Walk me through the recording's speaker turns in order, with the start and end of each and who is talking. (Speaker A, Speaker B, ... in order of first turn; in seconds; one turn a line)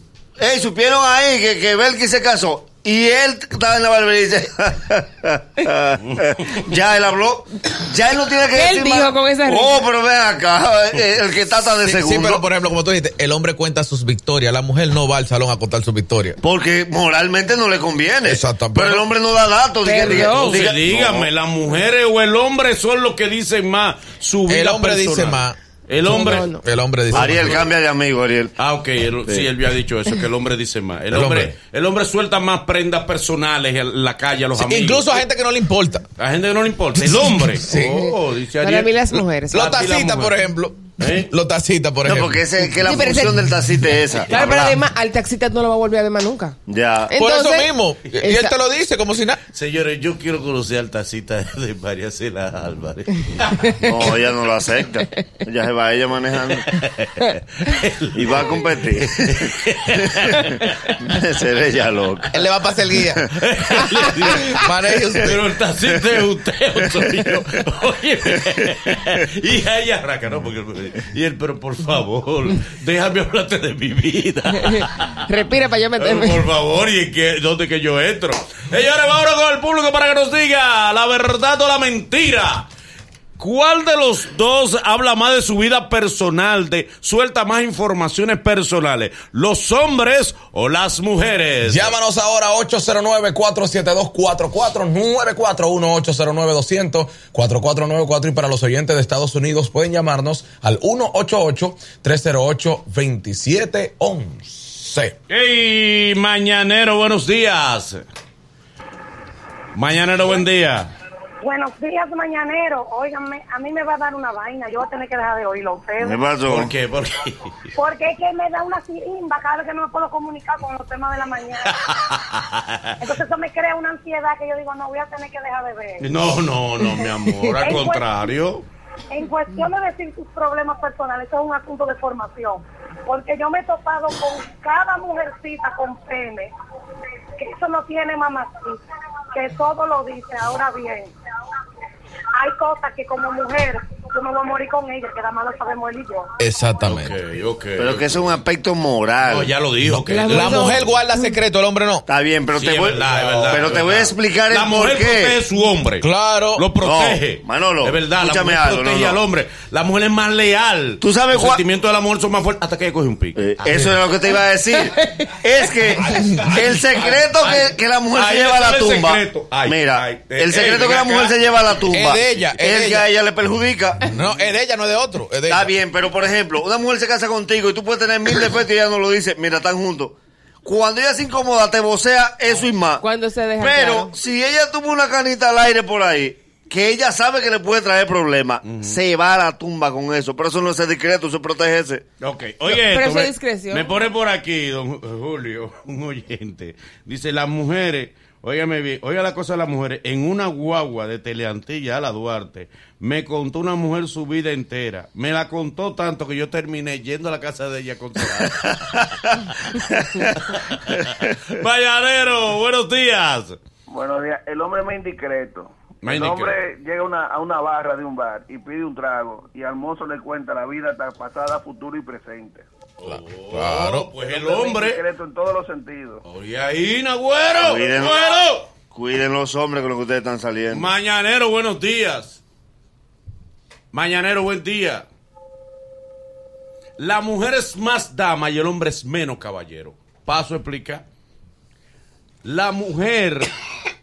Speaker A: 0.4-12.4
Speaker B: 8.5-9.8
Speaker C: 11.8-16.4
Speaker A: 16.4-21.3
Speaker C: 18.2-19.0
Speaker B: 19.8-20.6
Speaker D: 20.0-26.5
Speaker C: 24.5-25.6
Speaker B: 26.0-26.6
Speaker C: 26.6-27.6
Speaker D: 27.1-27.7
Speaker A: 27.1-28.5
Speaker D: 28.6-35.1
Speaker C: 31.1-31.5
Speaker C: 34.6-36.1
Speaker D: 36.2-38.9
Speaker C: 37.5-38.0
Speaker B: 37.7-38.1
Speaker B: 38.6-39.7
Speaker C: 39.5-42.4
Speaker D: 39.5-40.4
Speaker D: 41.0-41.3
Speaker A: 42.0-44.6
Speaker B: 42.8-43.4
Speaker B: 44.3-46.6
Speaker C: 44.3-44.8
Speaker A: 46.7-47.1
Speaker B: 47.1-48.5
Speaker C: 47.1-49.4
Speaker D: 49.5-53.9
Speaker B: 53.6-53.9
Speaker A: 53.8-56.8
Speaker D: 56.6-60.9
Speaker A: 58.1-62.4
Speaker C: 62.3-63.4
Speaker D: 63.3-75.3
Speaker C: 64.2-65.4
Speaker A: 67.0-67.3
Speaker B: 74.6-76.5
Speaker D: 76.0-82.7
Speaker D: 83.4-91.9
Speaker E: 91.7-105.1
Speaker D: 105.3-108.0
Speaker D: 109.7-110.9
Speaker F: 111.4-116.2
Speaker A: 116.0-116.7
Speaker D: 116.5-117.5
Speaker F: 117.7-122.1
Speaker D: 121.8-123.0
Speaker F: 123.0-126.1
Speaker D: 126.0-128.7
Speaker F: 127.6-128.1
Speaker F: 129.1-136.5
Speaker F: 137.4-138.8
Speaker F: 139.3-141.1
Speaker F: 142.3-146.3
Speaker C: 146.4-147.1
Speaker D: 146.8-148.4
Speaker A: 147.8-149.5
Speaker D: 149.2-150.9
Speaker C: 149.9-152.1
Speaker B: 150.1-151.3
Speaker A: 152.1-155.4
Speaker D: 152.5-163.9
Speaker E: 153.3-153.6
Speaker C: 156.0-156.7
Speaker A: 156.8-159.2
Speaker A: 161.0-161.6
Speaker A: 163.4-174.1
Speaker D: 166.4-171.3
Speaker C: 171.9-173.1
Speaker C: 174.1-175.7
Speaker A: 175.5-183.0
Speaker B: 183.0-184.1
Speaker A: 183.6-192.0
Speaker D: 188.6-189.0
Speaker D: 192.2-213.6
Speaker B: 192.7-194.0
Speaker A: 210.0-210.3
Speaker G: 213.9-222.6
Speaker D: 216.0-216.6
Speaker D: 223.0-225.0
Speaker C: 223.0-224.1
Speaker G: 224.3-226.2
Speaker D: 226.2-228.7
Speaker A: 227.6-228.2
Speaker A: 228.9-230.9
Speaker D: 230.7-232.4
Speaker D: 233.9-235.1
Speaker D: 237.0-241.0
Speaker D: 242.4-243.5